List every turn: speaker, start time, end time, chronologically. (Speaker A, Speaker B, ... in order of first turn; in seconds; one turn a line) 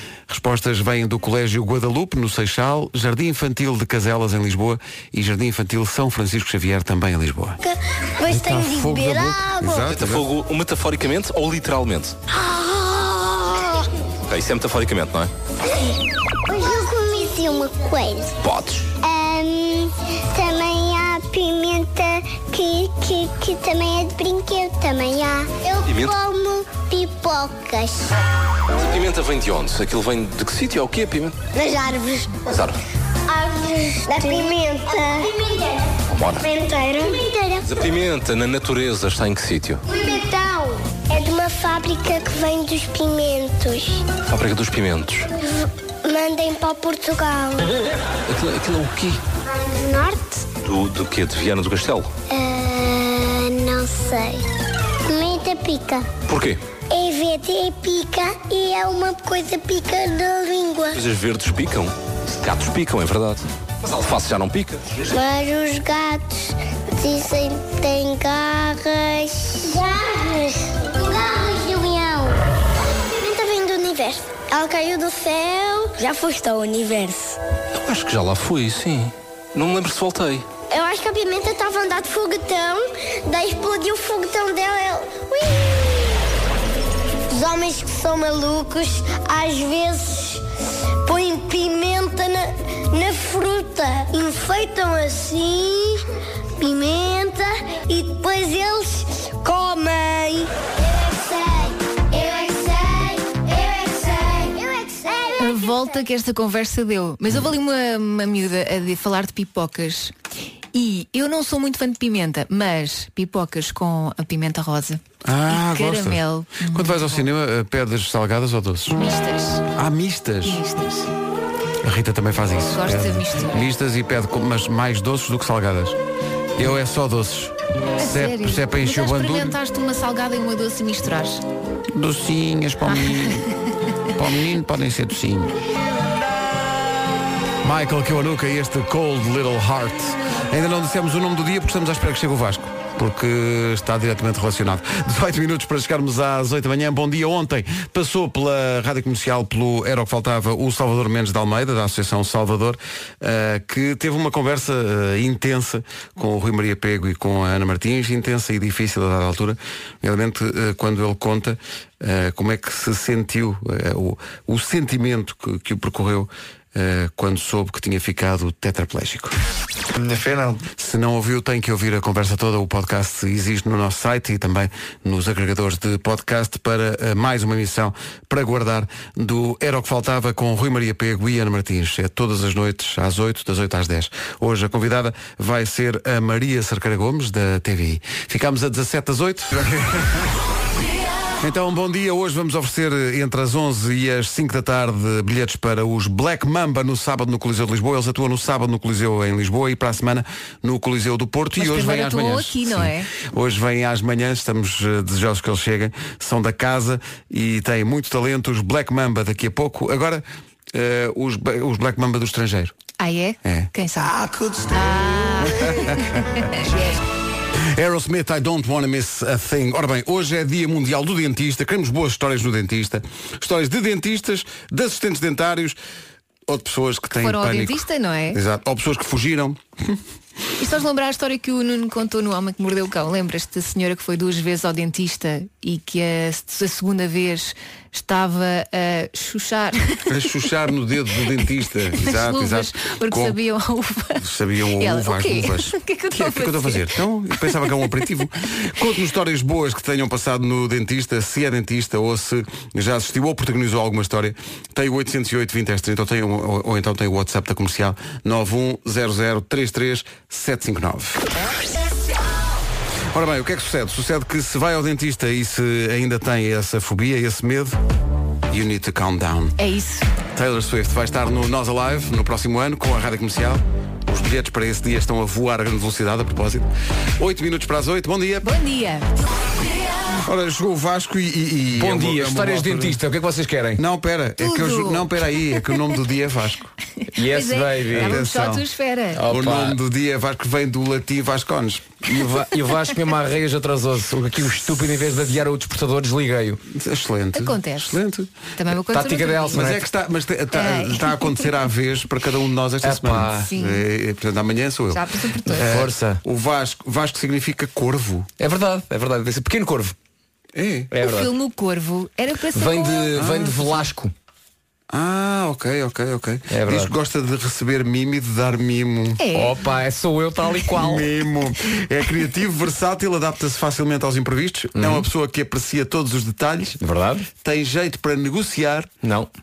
Speaker A: 0.3-7.6
Speaker B: 7.6-9.9
Speaker A: 8.2-10.3
Speaker C: 9.8-12.2
Speaker B: 12.3-13.9
Speaker C: 14.3-15.3
Speaker B: 16.4-18.3
Speaker C: 18.4-18.9
Speaker B: 19.0-28.1
Speaker C: 25.8-26.1
Speaker C: 28.8-31.4
Speaker B: 31.5-32.4
Speaker C: 32.5-32.8
Speaker B: 33.3-37.8
Speaker C: 36.1-36.5
Speaker C: 37.6-39.8
Speaker B: 39.9-44.1
Speaker C: 44.2-45.3
Speaker B: 45.4-47.7
Speaker C: 48.3-49.2
Speaker B: 49.5-50.5
Speaker C: 50.6-52.1
Speaker B: 52.3-54.4
Speaker B: 55.0-56.1
Speaker C: 56.2-56.6
Speaker B: 56.9-61.0
Speaker C: 60.9-65.0
Speaker B: 65.1-72.4
Speaker B: 73.1-77.4
Speaker C: 77.8-80.5
Speaker B: 80.7-86.2
Speaker B: 87.3-90.4
Speaker B: 91.0-96.0
Speaker B: 96.6-106.0
Speaker D: 105.4-110.1
Speaker D: 110.7-117.3
Speaker A: 115.2-119.0
Speaker D: 119.0-119.6
Speaker A: 119.7-120.6
Speaker D: 120.4-121.1
Speaker A: 121.8-126.0
Speaker D: 122.7-123.7
Speaker A: 126.6-129.6
Speaker D: 128.0-131.4
Speaker A: 131.9-133.5
Speaker D: 132.9-133.7
Speaker A: 134.1-135.5
Speaker A: 137.6-169.3
Speaker A: 170.7-190.3
Speaker A: 191.4-212.7
Speaker D: 201.6-203.1
Speaker D: 213.0-216.8
Speaker A: 213.4-213.7
Speaker A: 215.4-216.2
Speaker A: 217.7-225.8
Speaker A: 226.5-230.0
Speaker D: 227.2-228.4
Speaker D: 230.6-240.1
Speaker A: 240.1-243.4
Speaker D: 241.9-244.2
Speaker A: 244.2-261.2
Speaker D: 244.8-247.8
Speaker A: 263.1-267.8
Speaker A: 268.5-269.6
Speaker D: 269.6-270.1
Speaker A: 270.3-278.5
Speaker D: 278.4-279.1
Speaker A: 280.1-283.0
Speaker E: 281.8-283.8
Speaker A: 283.8-286.7
Speaker D: 284.4-285.8
Speaker D: 287.0-289.2
Speaker E: 287.1-288.2
Speaker A: 287.9-288.7
Speaker E: 289.1-289.8
Speaker A: 289.3-291.9
Speaker E: 292.1-296.6
Speaker A: 296.7-298.3
Speaker D: 297.3-298.0
Speaker D: 298.6-299.6
Speaker E: 298.9-299.9
Speaker A: 299.5-308.3
Speaker D: 300.5-301.5
Speaker E: 302.8-303.5
Speaker D: 303.4-303.8
Speaker D: 304.9-305.7
Speaker E: 305.5-306.2
Speaker E: 308.4-309.9
Speaker A: 310.5-310.9
Speaker E: 310.9-311.3
Speaker D: 311.0-313.1
Speaker E: 312.5-314.1
Speaker A: 313.1-313.6
Speaker A: 314.9-319.2
Speaker E: 316.5-316.9
Speaker D: 319.2-319.6
Speaker E: 319.3-321.1
Speaker A: 320.7-326.8
Speaker E: 324.7-325.1
Speaker E: 326.8-327.3
Speaker A: 327.4-328.9
Speaker E: 329.0-329.3